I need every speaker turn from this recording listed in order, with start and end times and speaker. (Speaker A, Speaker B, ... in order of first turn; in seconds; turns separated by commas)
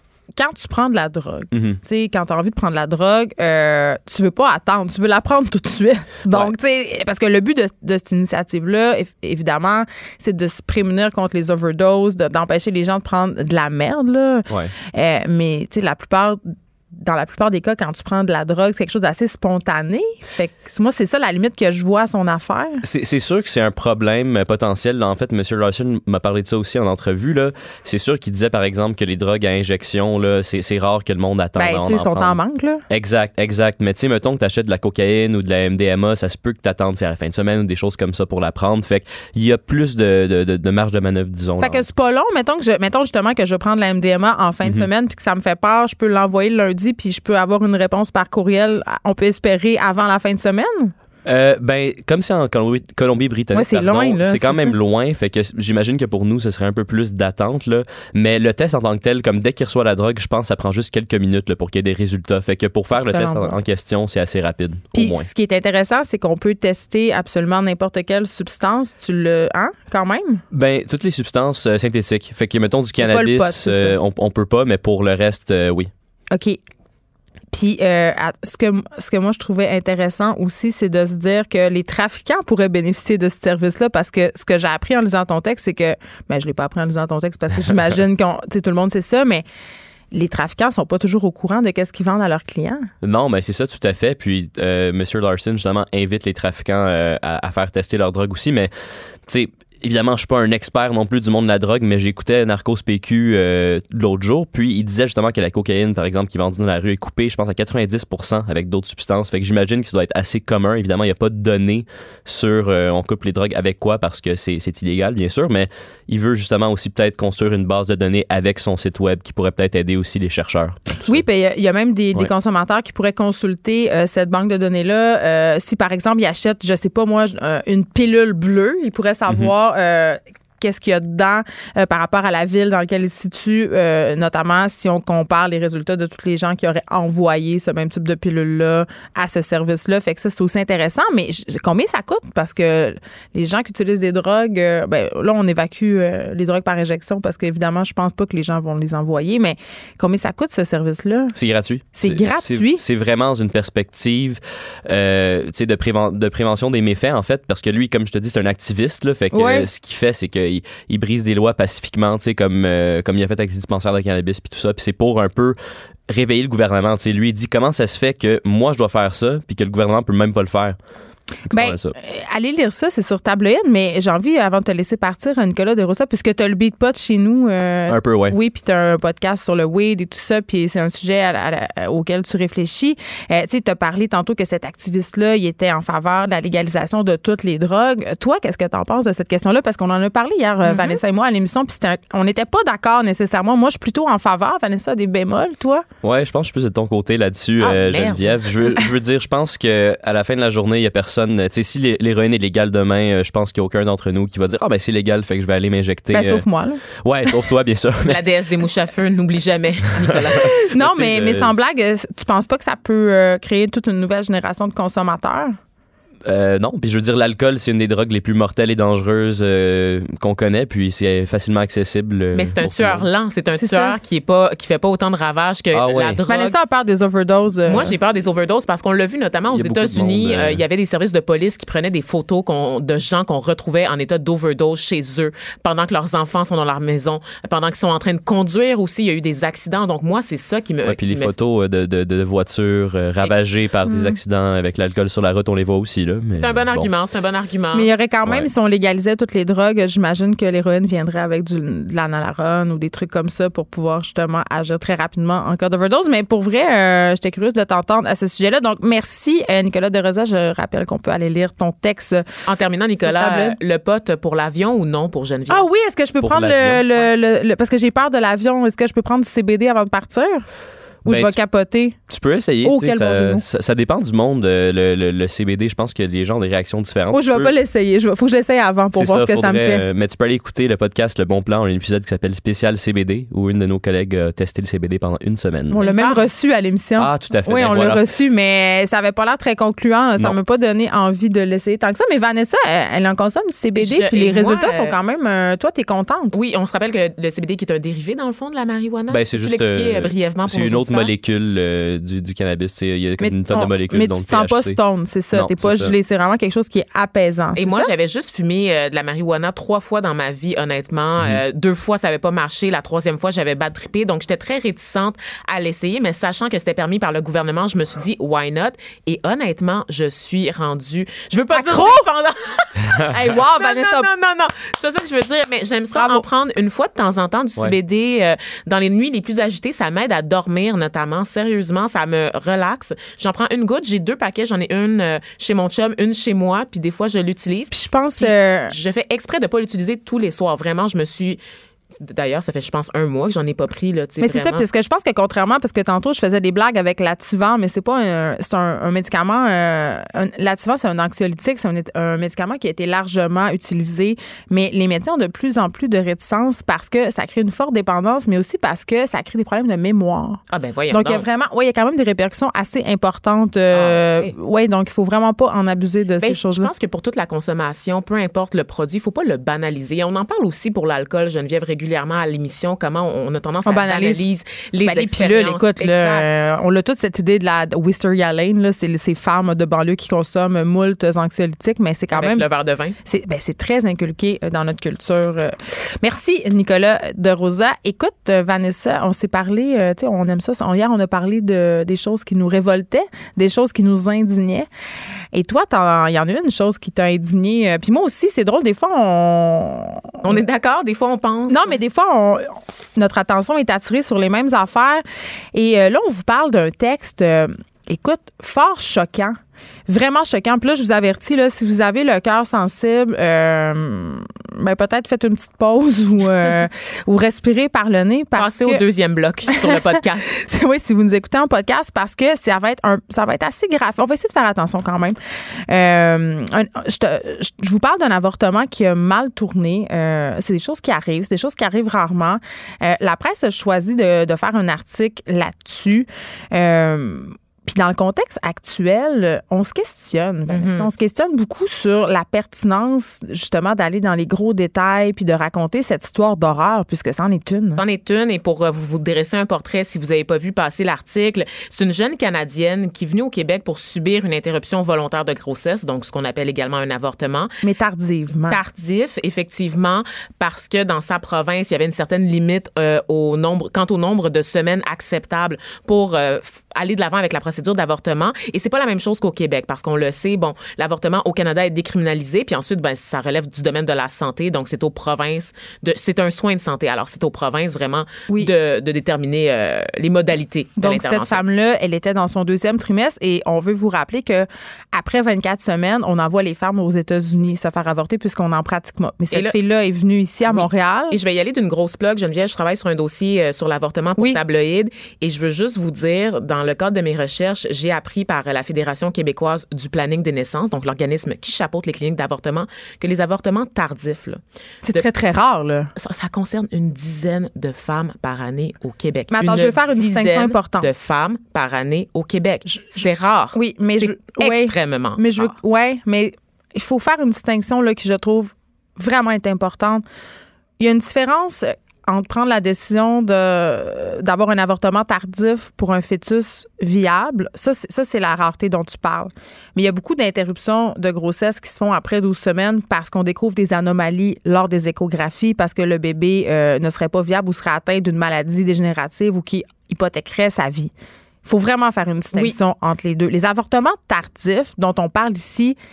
Speaker A: 0.4-22.8, Speaker B: 1.5-1.8, Speaker B: 14.5-14.7, Speaker B: 22.8-32.4, Speaker A: 31.6-32.8, Speaker B: 32.9-41.8, Speaker A: 41.6-50.9, Speaker B: 51.3-65.3, Speaker A: 53.5-54.8, Speaker A: 62.9-63.6, Speaker A: 65.0-70.4, Speaker B: 70.5-75.9, Speaker A: 73.0-74.0, Speaker A: 76.3-76.6, Speaker A: 77.5-89.5, Speaker A: 90.1-92.9, Speaker B: 93.0-98.7, Speaker B: 99.3-121.2, Speaker A: 121.1-151.3, Speaker B: 151.3-165.6, Speaker A: 151.9-152.8, Speaker A: 159.3-159.7, Speaker B: 166.1-170.8, Speaker A: 171.5-195.8, Speaker B: 171.5-171.9, Speaker B: 177.9-178.3, Speaker C: 190.7-191.0, Speaker B: 196.0-206.5, Speaker C: 197.6-198.8, Speaker A: 206.1-206.8, Speaker B: 207.0-208.2, Speaker C: 208.1-210.7, Speaker B: 210.0-211.5, Speaker A: 210.4-215.6, Speaker B: 216.3-223.1, Speaker C: 222.3-226.6, Speaker A: 223.5-224.0, Speaker B: 225.7-226.2, Speaker A: 226.3-227.9, Speaker C: 227.7-241.3, Speaker B: 229.5-230.6, Speaker B: 240.9-246.9, Speaker A: 243.9-244.2, Speaker C: 246.4-247.9, Speaker A: 247.7-262.2, Speaker C: 262.5-265.7, Speaker A: 263.0-263.6, Speaker A: 265.5-270.4, Speaker B: 266.2-267.1, Speaker B: 271.1-271.4, Speaker A: 271.1-272.0, Speaker B: 272.1-277.5, Speaker A: 272.6-273.4, Speaker A: 277.1-279.9, Speaker B: 278.9-285.8, Speaker A: 285.7-296.3, Speaker C: 285.8-286.2, Speaker B: 287.0-288.0, Speaker C: 293.8-295.0, Speaker C: 296.3-301.1, Speaker B: 299.1-304.8, Speaker A: 303.2-307.9, Speaker B: 305.3-305.9, Speaker C: 307.6-341.4, Speaker A: 321.5-322.1, Speaker B: 322.8-323.1, Speaker A: 323.1-324.1, Speaker A: 325.9-326.2, Speaker A: 337.7-338.7, Speaker C: 341.9-344.6, Speaker A: 344.2-366.7, Speaker C: 360.5-361.2, Speaker C: 363.7-364.3, Speaker C: 366.2-376.3, Speaker A: 373.7-374.2, Speaker A: 374.8-382.4, Speaker C: 382.1-383.0, Speaker A: 383.1-394.7, Speaker A: 395.3-400.4, Speaker C: 400.2-401.8, Speaker A: 401.5-418.8, Speaker C: 418.4-420.3, Speaker A: 420.3-425.2, Speaker A: 425.7-447.8, Speaker C: 440.5-440.9, Speaker C: 447.8-457.6, Speaker A: 457.6-458.6, Speaker C: 458.5-481.4, Speaker A: 480.8-491.2, Speaker C: 490.5-504.4, Speaker A: 504.8-505.9, Speaker C: 506.0-515.5, Speaker A: 509.3-510.9, Speaker A: 512.7-513.0, Speaker A: 513.5-520.0, Speaker A: 520.8-540.9, Speaker A: 541.5-545.8